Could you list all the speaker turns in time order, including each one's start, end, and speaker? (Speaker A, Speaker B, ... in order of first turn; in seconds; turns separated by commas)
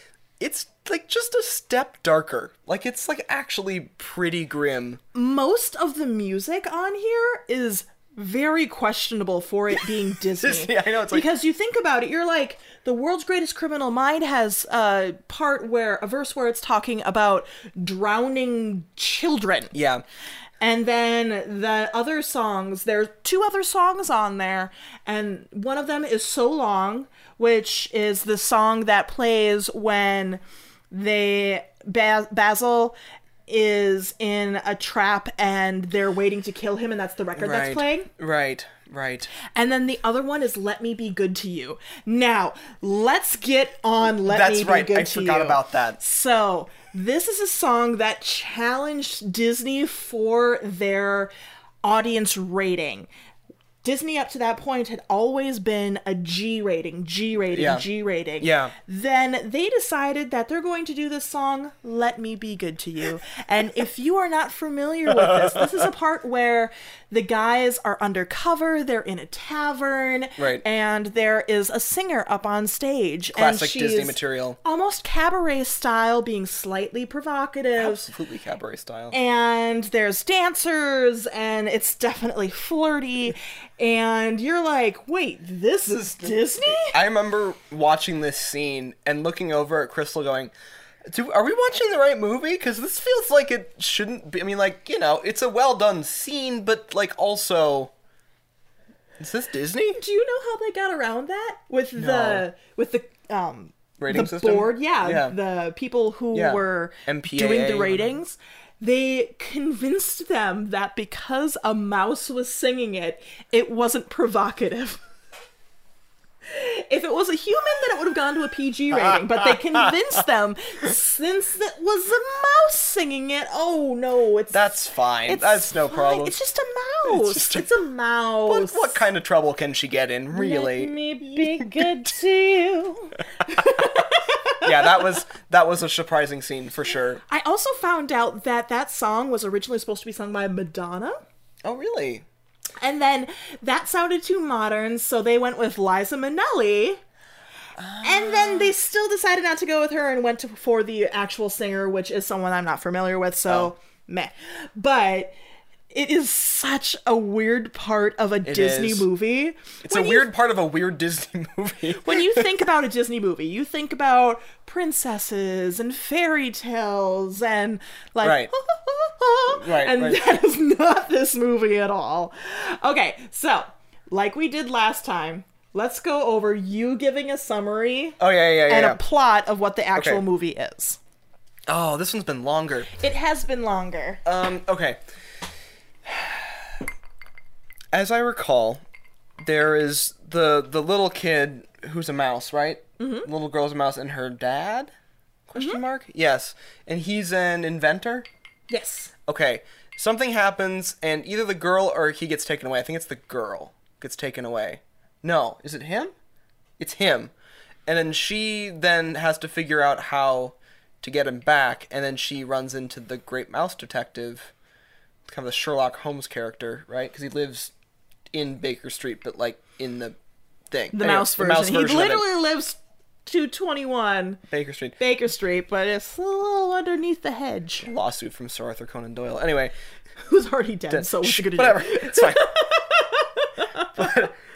Speaker A: 0.4-5.0, Speaker B: 5.1-19.7, Speaker A: 10.4-11.3, Speaker A: 19.7-20.0, Speaker B: 20.6-33.0, Speaker B: 33.5-38.1, Speaker A: 37.4-39.3, Speaker B: 39.5-51.3, Speaker A: 44.2-46.0, Speaker B: 51.8-53.1, Speaker B: 53.8-78.0, Speaker A: 57.5-57.8, Speaker A: 58.4-58.7, Speaker A: 70.4-70.6, Speaker A: 73.3-74.6, Speaker A: 77.8-79.2, Speaker B: 79.1-87.0, Speaker A: 86.8-90.5, Speaker A: 91.0-97.9, Speaker A: 99.2-100.0, Speaker B: 99.9-115.0, Speaker A: 102.0-102.4, Speaker A: 104.0-105.3, Speaker A: 106.3-108.1, Speaker B: 116.5-129.0, Speaker A: 124.5-126.4, Speaker A: 127.0-127.7, Speaker A: 128.4-131.8, Speaker B: 130.3-135.2, Speaker A: 134.6-137.2, Speaker B: 137.3-141.2, Speaker A: 141.6-142.2, Speaker B: 142.8-147.0, Speaker A: 147.8-148.7, Speaker B: 148.0-155.3, Speaker B: 155.9-160.3, Speaker A: 158.4-159.1, Speaker A: 159.8-162.5, Speaker B: 161.9-181.0, Speaker A: 168.2-168.5, Speaker A: 169.5-170.2, Speaker A: 178.2-179.0, Speaker A: 179.9-180.2, Speaker A: 181.7-183.0, Speaker B: 182.9-184.2, Speaker A: 184.2-185.0, Speaker A: 186.0-186.7, Speaker A: 187.9-188.8, Speaker A: 189.4-194.9, Speaker B: 193.0-193.3, Speaker A: 195.5-198.3, Speaker B: 195.6-195.8, Speaker B: 198.7-199.1, Speaker A: 199.3-206.1, Speaker A: 206.8-207.3, Speaker A: 207.8-214.5, Speaker A: 215.2-217.7, Speaker A: 218.3-220.2, Speaker A: 220.7-222.2, Speaker B: 220.9-224.4, Speaker A: 224.5-225.0, Speaker B: 225.0-227.9, Speaker A: 227.8-229.7, Speaker B: 230.2-234.1, Speaker A: 230.9-232.6, Speaker A: 233.9-234.3